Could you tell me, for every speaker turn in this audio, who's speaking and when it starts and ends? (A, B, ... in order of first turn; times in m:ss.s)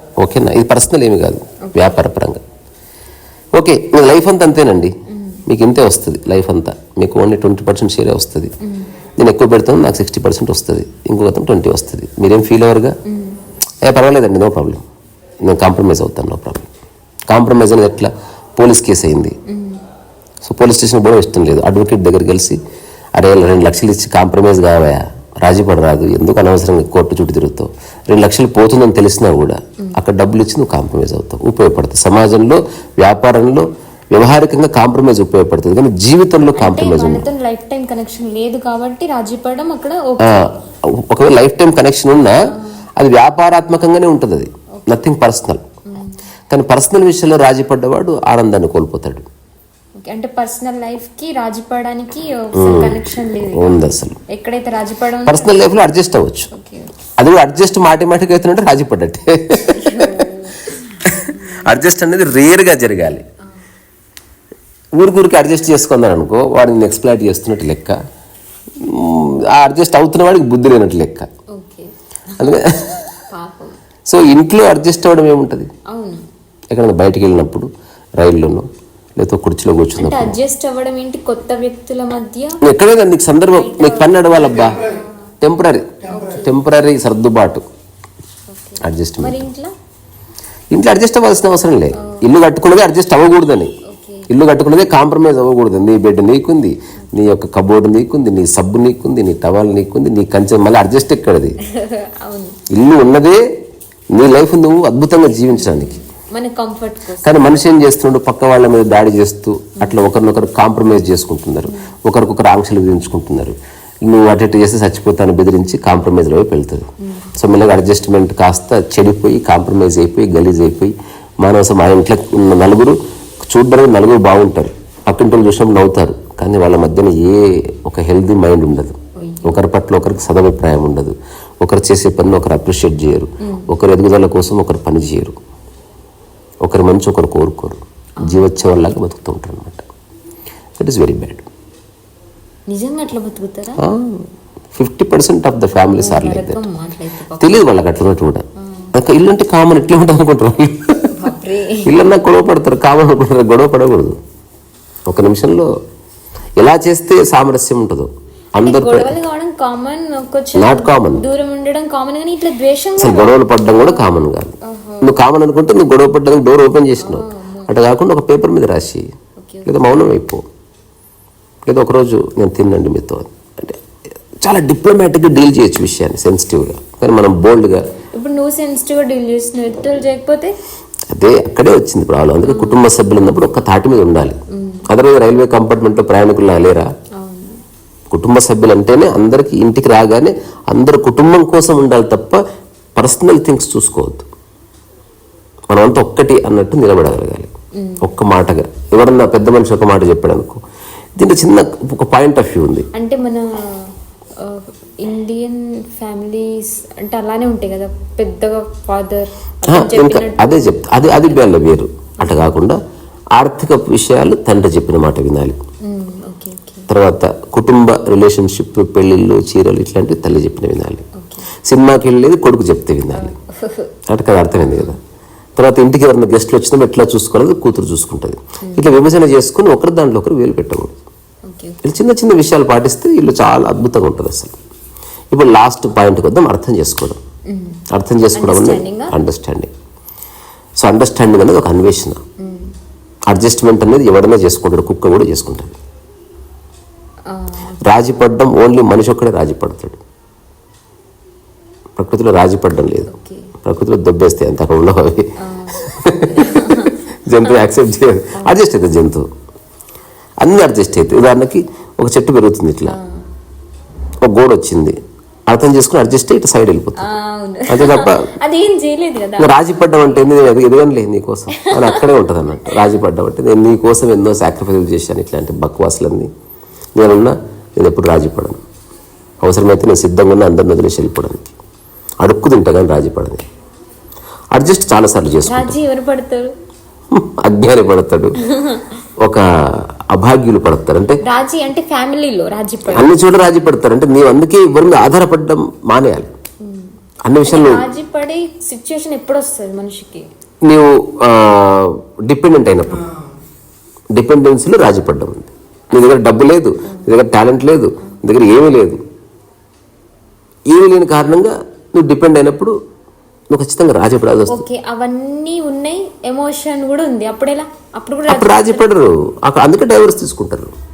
0:00.2-0:02.4 A
0:01.6-0:02.0 B
0:03.6-0:05.0 A
0:05.1-0:05.4 B
0:05.5-0:08.5 A
0:08.6-0:08.9 B
0:09.2-0:13.0 A
0:13.1-0:13.4 B
0:13.8-0:14.8 A
0:15.4-0:16.7 A
0:17.3-0:19.4 A
0:19.5-0:19.8 B
0:20.4-0:22.6 A
0:23.2-0:37.3 A
0:36.6-0:40.6 B
0:40.2-0:42.4 A
0:42.5-0:42.8 B
0:43.0-0:45.6 A
0:44.8-0:45.0 B
0:45.9-0:46.2 B
0:46.5-0:49.3 A
0:50.0-0:53.8 B
0:52.6-0:54.2 A
0:54.3-0:55.6 B
0:55.3-0:56.5 A
0:56.5-0:56.9 B
0:57.2-1:00.2 A
0:59.7-1:01.7 B
1:01.1-1:03.2 A
1:05.0-1:08.0 A
1:08.8-1:11.3 A
1:11.5-1:12.6 B
1:12.4-1:13.1 A
1:13.3-1:13.8 B
1:14.1-1:15.7 A
1:15.9-1:16.2 B
1:16.7-1:18.7 A
1:19.2-1:20.4 A
1:20.0-1:22.6 B
1:22.6-1:24.8 A
1:23.5-1:25.1 B
1:25.4-1:27.6 A
1:26.1-1:26.6 B
1:28.5-1:29.7 B
1:28.8-1:29.4 A
1:30.7-1:33.7 A
1:33.9-1:34.3 B
1:34.3-1:41.6 A
1:41.6-1:42.6 B
1:42.7-1:43.4 A
1:44.2-1:45.9 A
1:45.4-1:47.5 B
1:47.2-1:53.6 A
1:51.7-1:51.9 B
1:54.1-2:15.4 A
1:57.0-1:57.3 B
2:09.2-2:09.6 B
2:13.4-2:13.7 B
2:16.6-2:19.9 A
2:18.2-2:18.6 B
2:20.8-2:21.5 A
2:22.7-2:23.8 B
2:23.8-2:26.6 A
2:25.7-2:27.7 B
2:27.4-2:31.2 A
2:31.1-2:31.9 B
2:31.8-2:34.2 A
2:35.1-2:35.7 A
2:36.6-2:39.2 A
2:38.6-2:44.0 B
2:40.6-2:41.2 A
2:43.0-2:49.1 A
2:44.6-2:45.2 B
2:47.0-2:47.7 B
2:49.4-2:49.9 B
2:49.7-2:50.4 A
2:51.6-2:53.8 A
2:54.4-2:57.8 A
2:58.1-3:00.5 B
3:01.1-3:04.4 A
3:02.4-3:02.9 B
3:04.5-3:04.9 B
3:04.9-3:06.9 A
3:07.2-3:07.6 B
3:08.1-3:12.4 A
3:13.0-3:14.3 A
3:15.7-3:17.5 A
3:17.8-3:18.0 B
3:18.0-3:20.6 A
3:21.2-3:22.9 A
3:22.9-3:31.6 B
3:29.7-3:32.8 A
3:32.2-3:32.5 B
3:33.4-3:35.6 A
3:35.8-3:36.9 B
3:36.9-3:41.0 A
3:41.2-3:41.5 B
3:41.7-3:43.4 A
3:43.2-3:43.9 B
3:44.1-3:45.0 A
3:44.6-3:45.0 B
3:45.6-3:50.9 A
3:48.6-3:48.9 B
3:51.5-3:51.8 B
3:51.8-3:54.6 A
3:55.3-3:57.2 A
3:57.5-3:57.8 B
3:57.9-3:59.7 A
3:58.4-3:59.1 B
4:00.8-4:02.2 A
4:02.4-4:02.7 B
4:03.3-4:05.8 A
4:07.3-4:07.8 B
4:07.8-4:10.0 A
4:12.0-4:13.1 A
4:13.1-4:13.5 B
4:13.6-4:19.3 A
4:15.4-4:17.6 B
4:20.4-4:23.0 A
4:22.9-4:23.3 B
4:24.2-4:25.0 A
4:25.5-4:27.1 A
4:27.0-4:30.3 B
4:27.7-4:28.3 A
4:29.4-4:36.3 A
4:31.6-4:32.1 B
4:37.0-4:38.6 A
4:39.4-4:41.6 A
4:42.2-4:43.5 A
4:44.5-4:45.8 A
4:45.5-4:46.5 B
4:47.1-4:48.4 A
4:48.4-4:48.9 B
4:49.2-4:51.2 A
4:51.2-4:53.2 B
4:52.9-4:56.3 A
4:56.6-4:56.9 B
4:57.2-4:57.8 A
4:57.4-5:00.2 B
5:00.7-5:03.1 A
5:04.1-5:09.0 A
5:10.7-5:12.8 A
5:13.5-5:14.7 A
5:14.5-5:18.9 B
5:18.3-5:20.7 A